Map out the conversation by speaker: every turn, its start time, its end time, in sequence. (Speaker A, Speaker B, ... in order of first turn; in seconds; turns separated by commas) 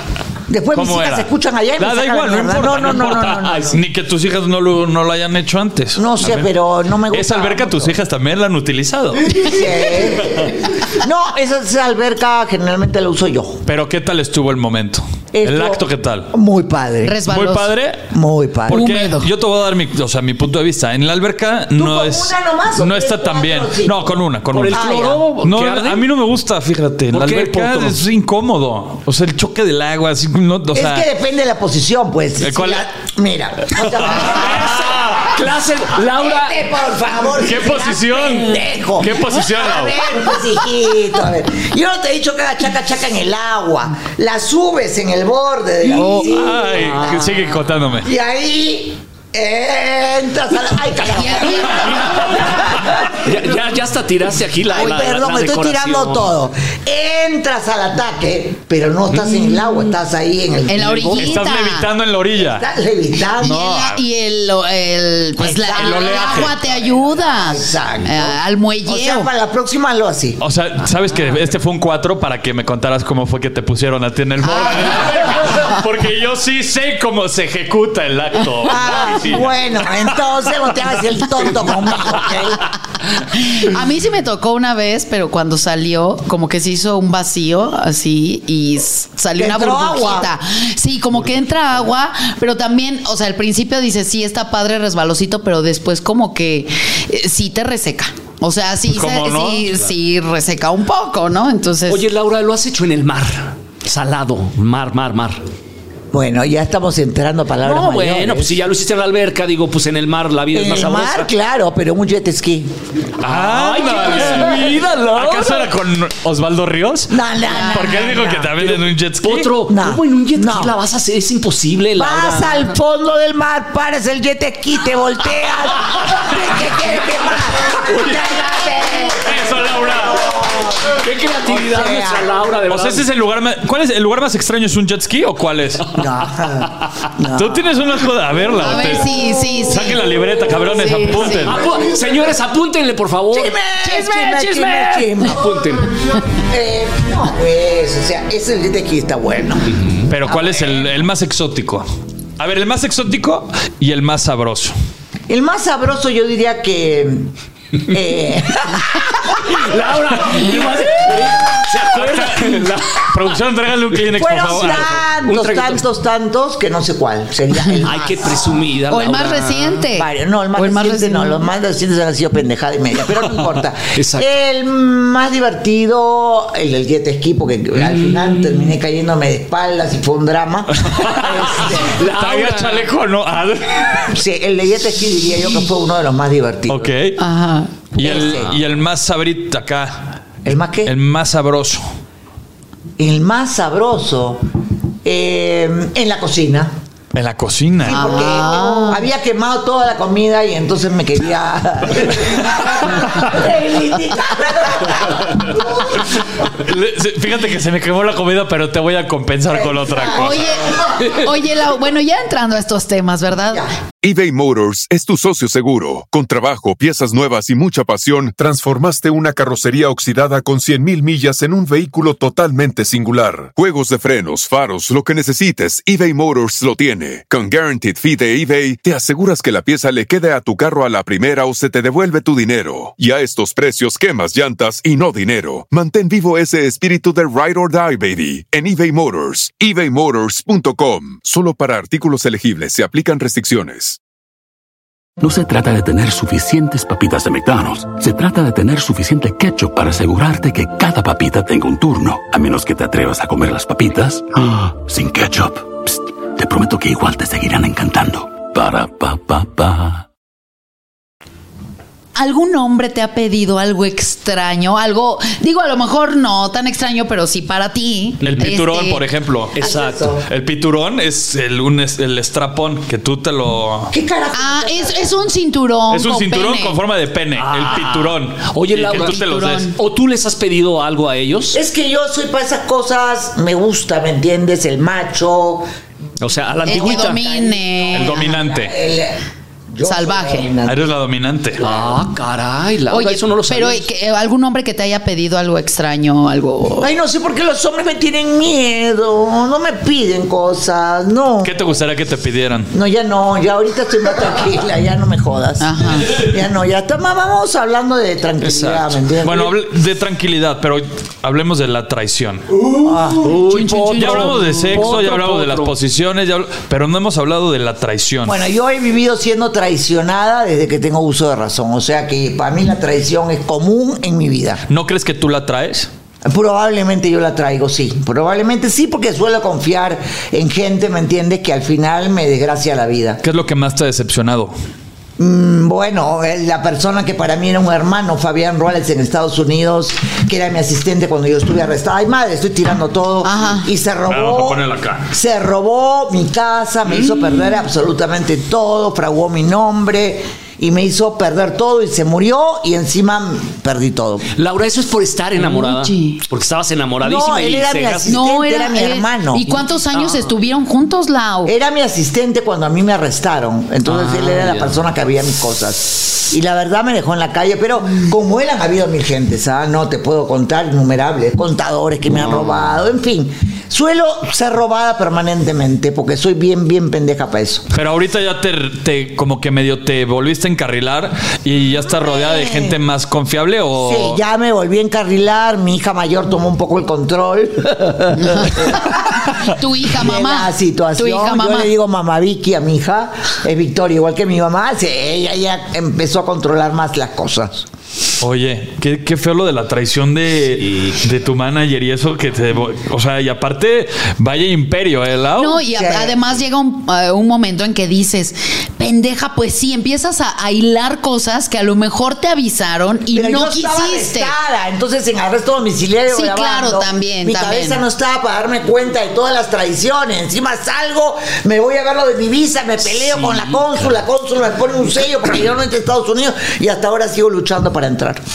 Speaker A: 0.5-3.8, Speaker B: 0.7-6.5, Speaker A: 6.0-7.9, Speaker B: 7.1-9.5, Speaker A: 9.3-13.6, Speaker B: 13.7-16.3, Speaker A: 15.3-17.2, Speaker C: 17.0-17.7, Speaker B: 17.2-18.1, Speaker A: 18.1-18.8, Speaker B: 18.6-31.1, Speaker C: 18.7-19.3, Speaker A: 21.7-25.2, Speaker D: 24.5-26.1, Speaker D: 27.1-28.0, Speaker A: 30.7-35.2, Speaker B: 32.4-32.9, Speaker B: 33.7-35.3, Speaker D: 34.3-36.6, Speaker A: 36.0-47.3, Speaker B: 37.4-40.0, Speaker D: 45.9-47.6, Speaker B: 46.0-48.1, Speaker A: 48.0-53.3, Speaker C: 51.1-52.3, Speaker D: 51.7-56.3, Speaker A: 54.7-61.2, Speaker D: 59.1-59.8, Speaker C: 60.7-61.9, Speaker D: 60.8-61.2, Speaker B: 61.2-62.6, Speaker A: 62.3-63.6, Speaker B: 63.4-64.0, Speaker C: 63.4-69.3, Speaker A: 65.4-70.4, Speaker B: 65.7-66.5, Speaker B: 70.4-80.1, Speaker C: 74.4-75.1, Speaker A: 78.6-82.7, Speaker C: 83.2-102.0, Speaker A: 89.3-90.3, Speaker B: 98.9-99.7, Speaker D: 101.9-105.4, Speaker A: 106.1-108.5, Speaker D: 107.6-111.3, Speaker A: 110.5-112.7, Speaker B: 113.2-119.5, Speaker D: 113.2-115.7, Speaker A: 117.1-118.7, Speaker C: 117.5-118.2, Speaker D: 118.6-122.7, Speaker A: 119.7-120.7, Speaker A: 122.0-132.3, Speaker D: 127.6-129.1, Speaker B: 129.2-130.2, Speaker D: 130.8-133.1, Speaker B: 132.7-135.9, Speaker A: 135.9-137.8, Speaker B: 137.3-141.7, Speaker C: 138.6-141.5, Speaker D: 141.4-146.0, Speaker A: 143.3-145.6, Speaker A: 146.4-151.0, Speaker D: 149.7-150.1, Speaker B: 150.1-151.8, Speaker B: 152.4-154.7, Speaker A: 155.3-157.3, Speaker A: 157.8-159.6, Speaker D: 159.3-163.4, Speaker B: 161.9-164.9, Speaker A: 164.1-168.6, Speaker D: 164.6-165.8, Speaker D: 167.8-169.8, Speaker C: 168.9-171.4, Speaker A: 169.9-182.0, Speaker D: 173.9-174.3, Speaker D: 177.7-178.8, Speaker B: 180.8-184.2, Speaker D: 181.3-182.9, Speaker A: 184.1-186.9, Speaker B: 186.7-187.2, Speaker C: 187.2-187.7, Speaker B: 187.9-190.2, Speaker A: 188.0-188.6, Speaker A: 190.4-190.9, Speaker B: 190.8-191.8, Speaker A: 193.0-194.4, Speaker A: 195.0-196.7, Speaker B: 197.1-198.2, Speaker A: 197.8-205.6, Speaker C: 197.9-199.1, Speaker B: 206.4-210.4, Speaker A: 209.5-210.7, Speaker C: 210.1-213.6, Speaker E: 214.0-244.0, Speaker F: 245.2-260.1, Speaker C: 262.1-269.0, Speaker B: 268.2-273.9, Speaker D: 269.5-270.0, Speaker A: 269.6-270.2, Speaker A: 273.9-275.3, Speaker C: 274.3-276.8, Speaker B: 275.9-279.7, Speaker D: 277.4-279.2, Speaker C: 278.9-279.8, Speaker D: 279.7-281.6, Speaker A: 281.5-285.7, Speaker D: 286.2-287.2, Speaker A: 286.6-289.2, Speaker C: 286.7-288.4, Speaker B: 287.9-288.7, Speaker A: 289.7-290.8, Speaker C: 289.8-290.5, Speaker B: 290.6-291.6, Speaker D: 291.6-293.9, Speaker A: 291.6-291.9, Speaker C: 292.9-296.9, Speaker A: 296.8-301.6, Speaker B: 301.4-302.7, Speaker A: 302.7-309.6, Speaker C: 305.6-306.2, Speaker D: 308.4-308.8, Speaker B: 309.2-312.5, Speaker D: 312.8-315.7, Speaker A: 312.8-313.4, Speaker C: 313.3-314.8, Speaker B: 313.9-318.4, Speaker A: 318.2-324.6, Speaker B: 324.7-325.9, Speaker A: 326.2-333.2, Speaker B: 333.2-334.5, Speaker A: 335.2-354.3, Speaker C: 343.2-343.7, Speaker B: 344.1-345.1, Speaker D: 354.4-358.2, Speaker C: 355.4-356.2, Speaker A: 357.0-359.4, Speaker C: 358.1-361.5, Speaker D: 359.9-360.3, Speaker A: 361.4-377.6, Speaker D: 363.8-364.8, Speaker D: 372.1-372.5, Speaker B: 377.7-384.2, Speaker A: 382.0-382.8, Speaker A: 383.8-397.7, Speaker C: 388.1-391.7, Speaker B: 398.2-405.6, Speaker D: 400.6-401.0, Speaker C: 405.4-414.3, Speaker A: 405.7-406.2, Speaker A: 413.1-428.2, Speaker C: 416.1-417.8, Speaker D: 422.9-423.7